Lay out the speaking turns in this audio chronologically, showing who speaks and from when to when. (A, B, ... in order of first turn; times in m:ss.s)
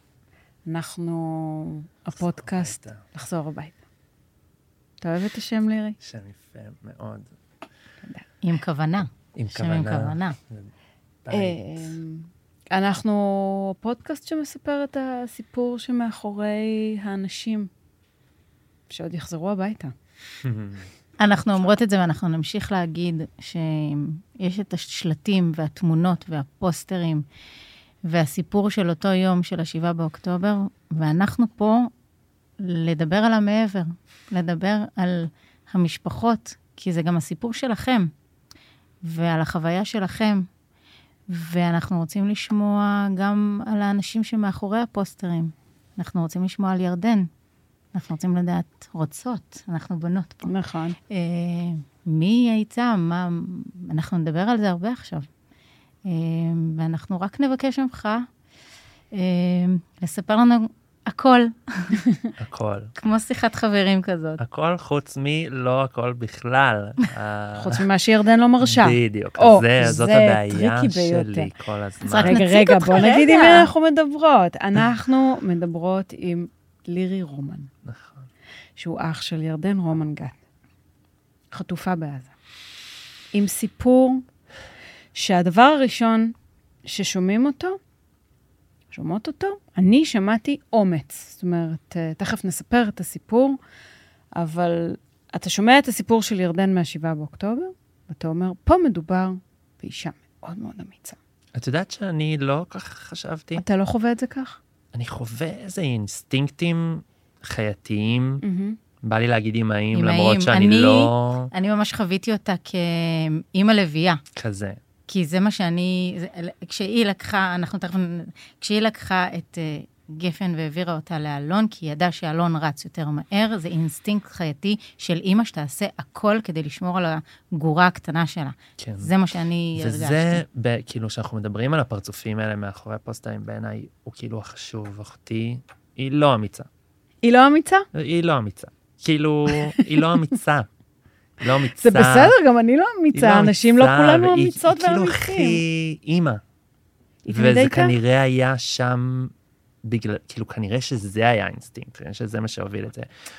0:00.7-0:03.8 A
0:02.2-0:03.1 B
0:05.0-0:06.0 A
0:06.0-0:07.3 B
0:08.4-0:10.4 C
0:09.4-0:10.7 B
0:11.2-0:12.0 B
0:11.3-0:17.7 A
0:18.9-0:19.9 A
0:20.4-0:20.9 B
0:21.2-0:27.2 C
0:28.1-0:31.9 C
0:32.6-0:38.1 C
0:39.0-0:40.5 C
0:41.3-0:47.3 C
0:47.9-0:50.5 C
0:50.4-0:51.0 A
0:51.1-0:55.3 C
0:56.1-0:58.3 C
0:59.1-1:02.1 C
1:02.4-1:02.9 B
1:03.0-1:04.4 C
1:04.4-1:07.9 B
1:07.6-1:11.5 A
1:08.6-1:12.4 B
1:12.0-1:13.7 C
1:12.2-1:17.7 A
1:17.8-1:18.3 B
1:18.8-1:20.4 A
1:21.5-1:22.3 A
1:23.3-1:24.2 A
1:25.2-1:26.3 A
1:26.9-1:27.8 A
1:28.9-1:33.6 A
1:34.4-1:41.2 A
1:41.6-1:43.6 B
1:43.6-1:44.6 A
1:44.9-1:48.4 B
1:48.4-1:48.8 A
1:49.0-1:51.5 B
1:49.9-1:54.2 C
1:54.4-1:54.8 B
1:55.1-2:10.4 C
2:08.8-2:09.1 B
2:09.8-2:16.7 B
2:17.2-2:17.9 A
2:17.9-2:20.7 B
2:21.4-2:22.4 B
2:21.7-2:25.6 A
2:23.1-2:26.4 B
2:27.3-2:28.0 A
2:27.3-2:33.1 B